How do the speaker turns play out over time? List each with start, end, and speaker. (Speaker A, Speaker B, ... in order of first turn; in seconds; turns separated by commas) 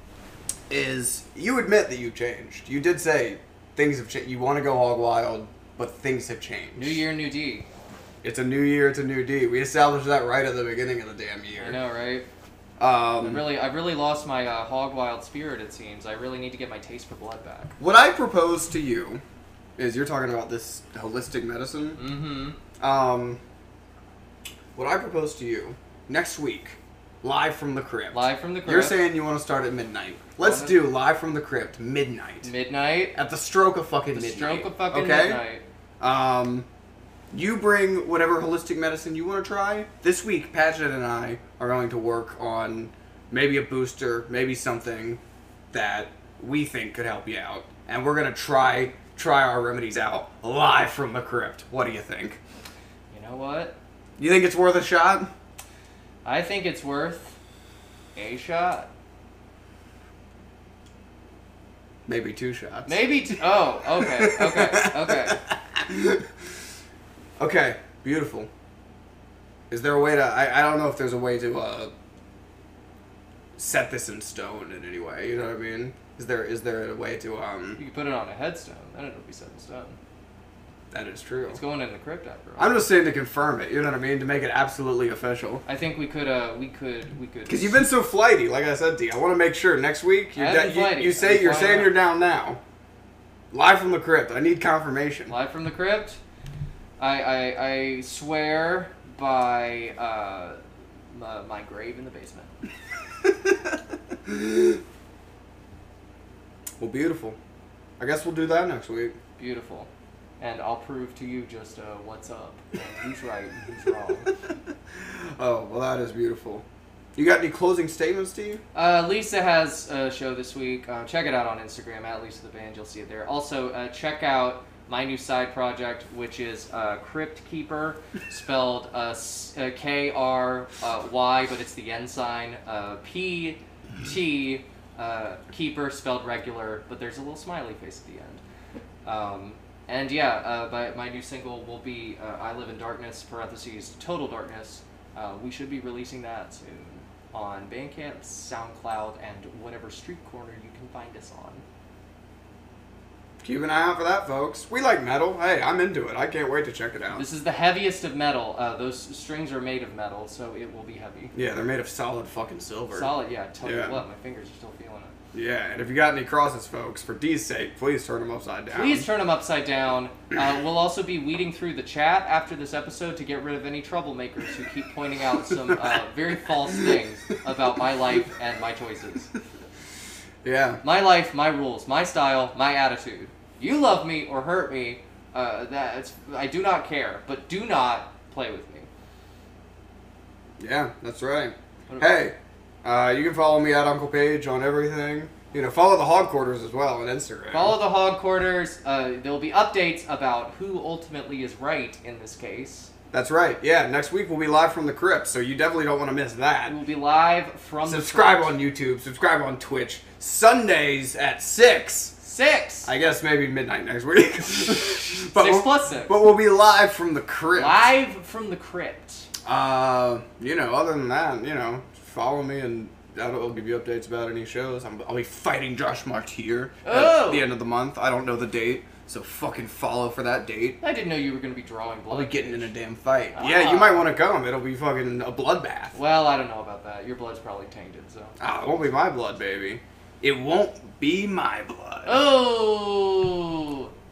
Speaker A: 0.7-7.0, Speaker B: 6.7-7.7, Speaker A: 8.2-11.8, Speaker B: 11.6-12.2, Speaker A: 12.8-13.5, Speaker B: 13.2-17.7, Speaker A: 17.8-19.2, Speaker A: 19.8-22.0, Speaker B: 22.0-22.6, Speaker A: 22.8-23.4, Speaker A: 24.7-32.5, Speaker B: 28.1-29.0, Speaker B: 30.4-30.8, Speaker B: 32.4-33.1, Speaker A: 33.1-35.4, Speaker B: 34.1-35.6, Speaker A: 36.0-36.6, Speaker A: 37.3-45.2, Speaker A: 45.7-52.4, Speaker B: 53.1-53.8, Speaker A: 54.2-55.3, Speaker B: 56.2-57.4, Speaker B: 58.1-58.9, Speaker A: 62.1-66.3, Speaker B: 62.9-65.4, Speaker A: 67.4-68.5, Speaker A: 69.7-71.9, Speaker A: 73.6-77.8, Speaker B: 77.8-80.0, Speaker A: 80.9-81.6, Speaker B: 81.5-82.8, Speaker A: 82.6-85.6, Speaker B: 85.7-87.8, Speaker A: 87.5-92.6, Speaker B: 90.3-92.0, Speaker A: 93.5-95.3, Speaker B: 95.3-96.2, Speaker B: 97.0-100.6, Speaker B: 101.1-102.5, Speaker A: 104.2-104.8, Speaker A: 106.8-107.4, Speaker A: 108.0-109.2, Speaker B: 109.4-114.3, Speaker A: 115.0-116.6, Speaker A: 117.1-118.6, Speaker B: 118.7-138.4, Speaker B: 139.0-151.6, Speaker A: 153.4-157.2, Speaker B: 157.1-161.3, Speaker A: 161.3-164.0, Speaker B: 162.9-165.1, Speaker A: 165.3-169.1, Speaker B: 168.7-179.3, Speaker A: 180.4-180.8, Speaker B: 180.8-188.9, Speaker A: 190.6-197.7, Speaker B: 191.9-192.3, Speaker B: 197.5-202.9, Speaker A: 203.1-206.8, Speaker B: 206.7-208.6, Speaker A: 207.8-212.2, Speaker B: 212.2-212.9, Speaker A: 212.8-217.8, Speaker B: 215.3-216.2, Speaker B: 217.5-219.3, Speaker A: 219.4-230.8, Speaker B: 226.8-227.5, Speaker B: 230.8-232.7, Speaker A: 232.1-235.9, Speaker B: 233.3-234.1, Speaker B: 235.9-238.4, Speaker A: 238.4-242.2, Speaker B: 242.1-243.9